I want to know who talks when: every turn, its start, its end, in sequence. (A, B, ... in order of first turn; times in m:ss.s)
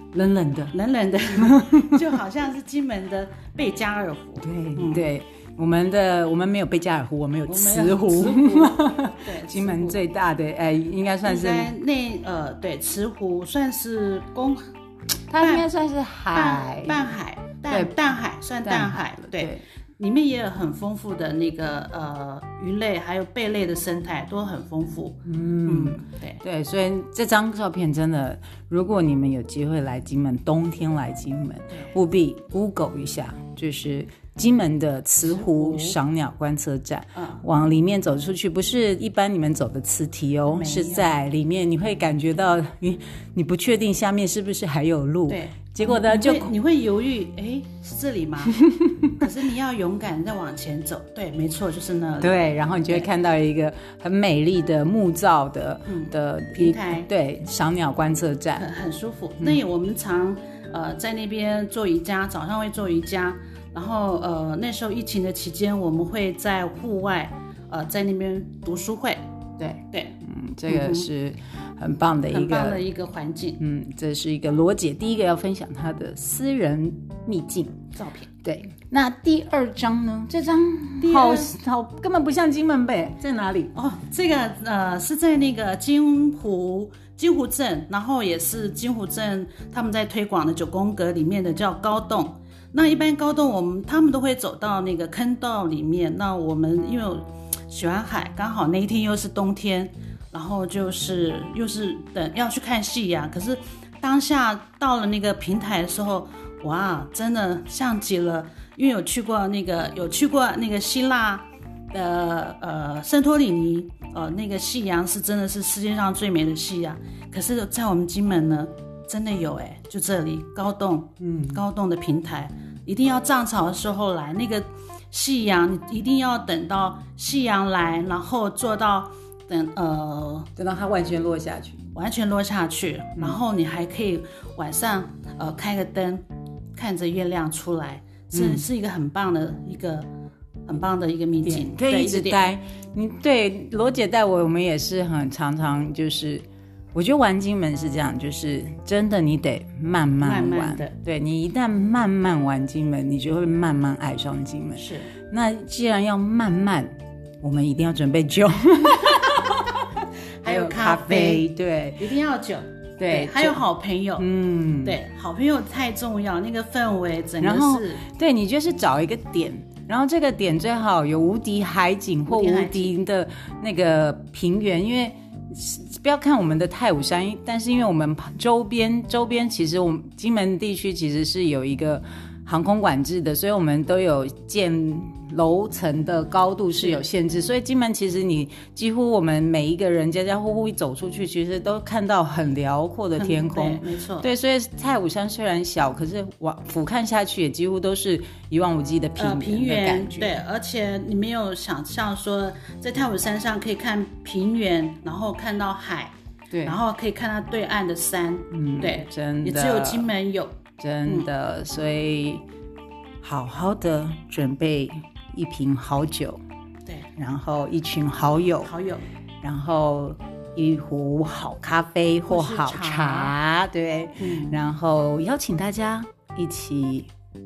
0:00.1-0:00.7 A
0:00.7-0:05.1 B
0:01.3-0:02.0 A
0:04.4-0:11.7 A
0:07.5-0:10.0 B
0:11.2-0:14.6 B
0:15.3-0:17.0 A
0:15.4-0:15.7 B
0:16.3-0:26.4 B
0:17.7-0:18.0 A
0:18.6-0:19.6 A
0:25.2-0:46.5 A
0:35.2-0:36.0 B
0:37.2-0:37.4 B
0:40.5-0:41.1 B
0:45.3-0:53.1 B
0:52.2-0:58.7 A
0:55.9-0:57.1 B
0:58.6-1:09.2 B
1:09.6-1:12.8 A
1:09.9-1:11.1 B
1:12.3-1:13.6 B
1:13.6-1:17.8 A
1:17.9-1:18.3 B
1:18.4-1:23.7 A
1:21.0-1:21.5 B
1:23.7-2:10.5 B
2:01.2-2:01.6 A
2:10.6-2:11.8 A
2:11.9-2:16.2 B
2:16.7-2:20.1 B
2:18.3-2:18.6 A
2:20.6-2:22.5 B
2:21.4-2:42.0 A
2:30.2-2:30.9 B
2:34.7-2:35.1 B
2:40.4-2:41.4 B
2:42.0-2:44.3 B
2:43.0-2:43.6 A
2:44.2-2:45.0 A
2:44.8-2:48.0 B
2:47.4-3:20.4 A
2:52.2-2:52.9 B
3:13.2-3:14.3 B
3:19.2-3:26.1 B
3:26.5-3:26.8 A
3:26.6-3:31.3 B
3:28.5-3:30.1 A
3:30.8-3:32.4 A
3:33.2-3:36.4 A
3:37.2-3:38.7 A
3:38.6-3:39.0 B
3:39.4-3:47.1 A
3:42.3-3:43.3 B
3:44.2-3:44.6 B